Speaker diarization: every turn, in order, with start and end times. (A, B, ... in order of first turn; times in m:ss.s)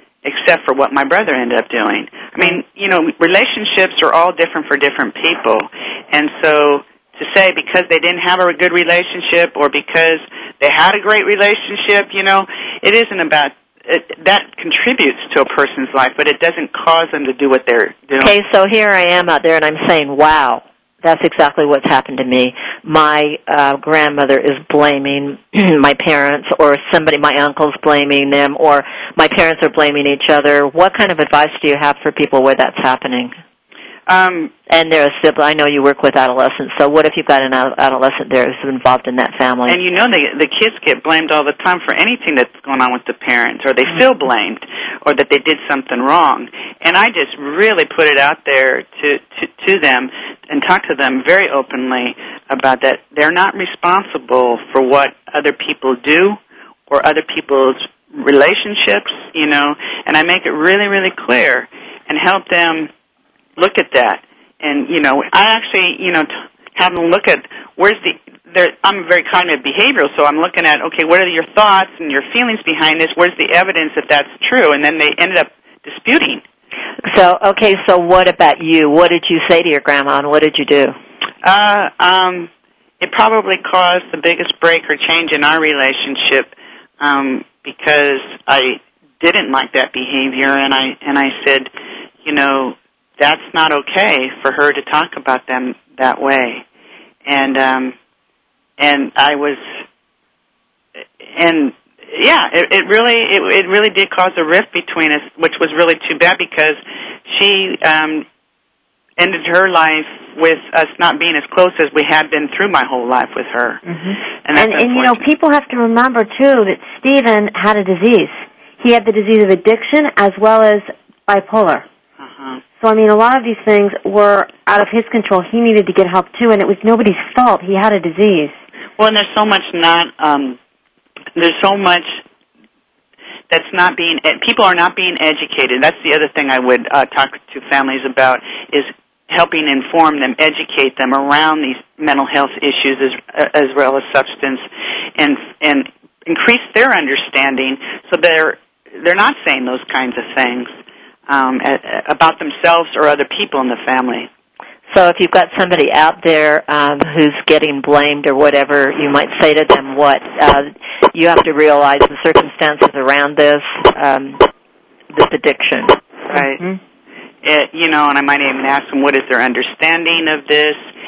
0:00.2-0:18.3 A
0:18.2-0:33.3 B
0:34.1-0:34.5 A
0:34.7-0:39.8 B
0:39.7-1:02.9 A
1:03.6-1:16.4 A
1:17.0-1:21.0 B
1:21.4-1:22.5 A
1:23.0-1:31.7 A
1:32.2-1:36.6 A
1:37.2-1:37.9 A
1:38.8-1:39.6 A
1:41.2-1:48.2 A
1:49.2-1:53.8 A
1:53.8-2:01.8 C
1:54.4-1:55.2 A
2:02.2-2:02.6 A
2:02.8-2:08.6 C
2:09.0-2:10.6 A
2:11.4-2:12.2 A
2:13.5-2:24.6 A
2:25.2-2:30.7 A
2:31.3-2:34.3 A
2:34.9-2:44.4 B
2:45.1-2:46.0 B
2:46.3-2:46.6 A
2:47.4-2:50.8 A